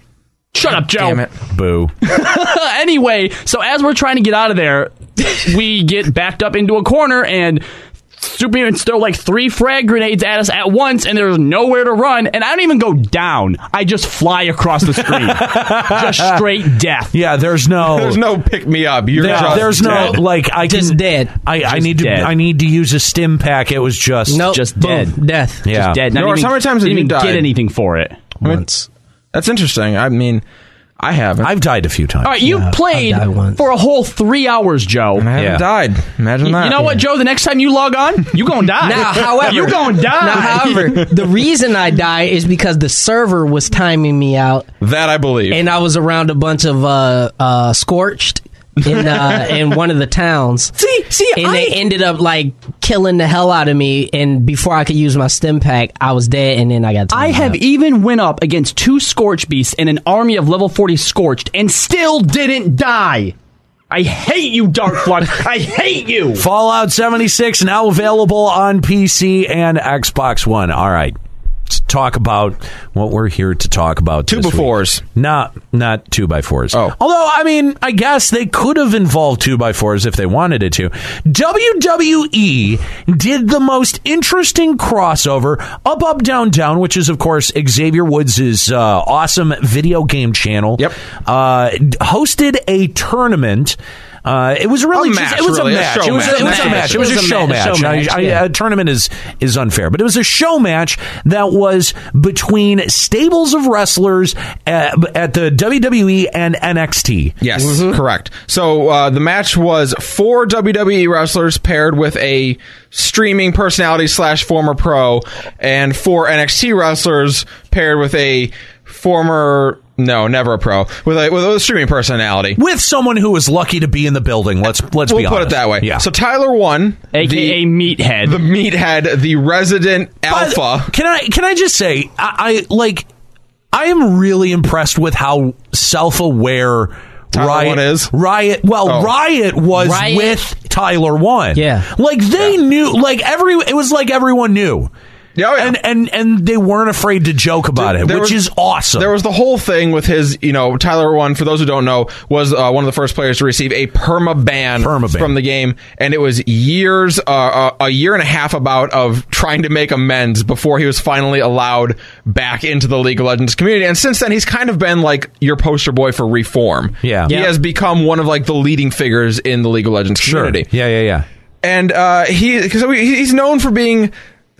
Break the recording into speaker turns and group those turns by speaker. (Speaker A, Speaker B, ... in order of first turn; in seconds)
Speaker A: 0.5-1.2, 2.0-7.6, 8.2-17.1, 21.7-22.3, 24.5-28.4, 32.2-35.3, 36.4-41.1, 50.8-51.8, 57.1-63.4, 63.9-66.5, 96.2-98.0, 127.1-128.4
Speaker B: 0.9-1.3, 17.8-20.1, 26.1-27.5, 29.3-30.4, 31.0-31.5, 35.2-36.9, 44.8-45.6, 48.8-49.6, 74.3-75.0, 94.9-96.8, 107.4-122.6, 125.1-127.6, 128.2-130.9, 137.3-138.1, 138.8-139.1, 145.4-145.7, 147.8-148.4, 149.0-170.7, 171.6-174.1
Speaker C: 1.5-1.9, 15.0-16.4, 17.1-18.2, 19.1-24.6, 25.6-26.0, 31.4-32.4, 35.4-35.7, 66.4-71.2, 71.7-107.4, 122.6-126.1, 130.3-133.1, 133.7-144.9, 145.6-149.1, 154.8-155.3, 167.0-167.4, 170.2-171.3
Speaker D: 19.3-21.3, 24.3-25.7, 28.4-28.9, 32.4-33.6, 38.8-44.7, 45.5-50.7, 51.4-57.6, 96.2-98.4, 107.6-108.0, 139.7-140.4, 141.6-141.9, 167.3-167.6